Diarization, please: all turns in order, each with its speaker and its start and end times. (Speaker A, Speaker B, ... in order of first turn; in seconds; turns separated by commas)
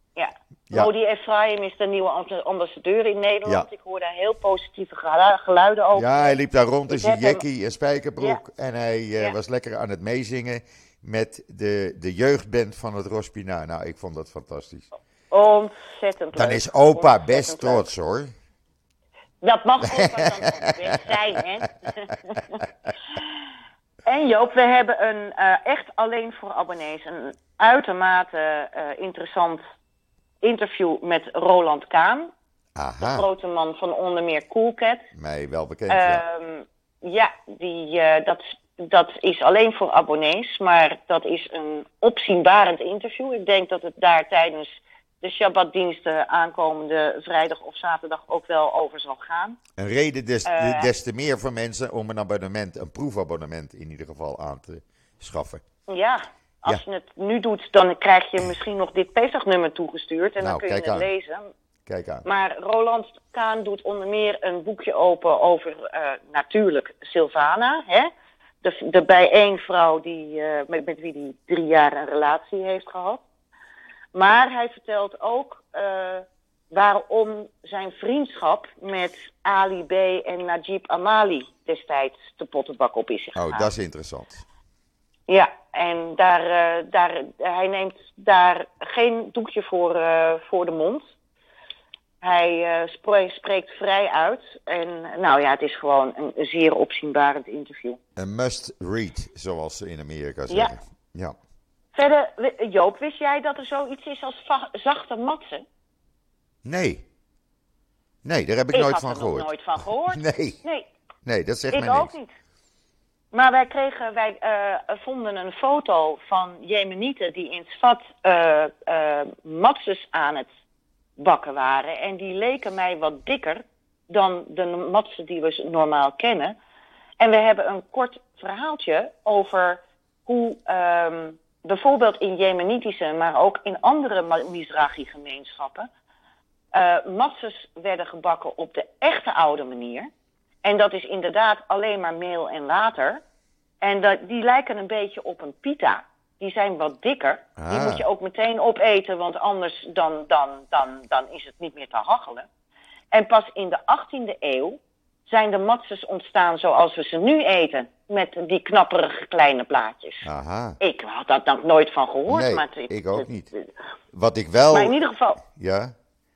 Speaker A: 0.2-6.4, Speaker B: 6.0-14.9, Speaker A: 6.9-7.4, Speaker A: 15.3-17.9, Speaker B: 16.4-18.3, Speaker A: 19.4-22.6, Speaker B: 19.9-21.1, Speaker A: 24.1-29.6, Speaker A: 30.4-32.3, Speaker B: 32.8-33.3, Speaker A: 33.0-35.1, Speaker B: 35.1-36.2, Speaker A: 35.9-49.6, Speaker B: 49.8-55.6, Speaker A: 50.5-50.9, Speaker A: 55.9-61.5, Speaker B: 60.4-61.1, Speaker B: 61.9-62.2, Speaker A: 62.2-68.1, Speaker A: 68.6-73.2, Speaker A: 74.2-83.7, Speaker B: 83.4-84.5, Speaker A: 85.3-91.1, Speaker A: 92.2-98.0, Speaker B: 98.2-101.4, Speaker A: 100.5-100.7, Speaker A: 102.0-105.7, Speaker B: 106.6-107.0, Speaker B: 108.2-109.5, Speaker A: 108.7-110.9, Speaker B: 110.1-110.6, Speaker B: 111.2-112.1, Speaker A: 111.7-112.3, Speaker A: 113.3-120.5, Speaker A: 121.2-126.5, Speaker A: 127.2-135.9, Speaker A: 136.7-140.1, Speaker A: 140.6-143.2, Speaker A: 143.8-152.5, Speaker B: 147.6-148.1, Speaker A: 153.1-160.3, Speaker B: 160.2-160.8, Speaker A: 160.8-163.7, Speaker B: 162.3-163.5, Speaker B: 164.1-164.9, Speaker A: 164.7-165.4, Speaker B: 165.5-165.9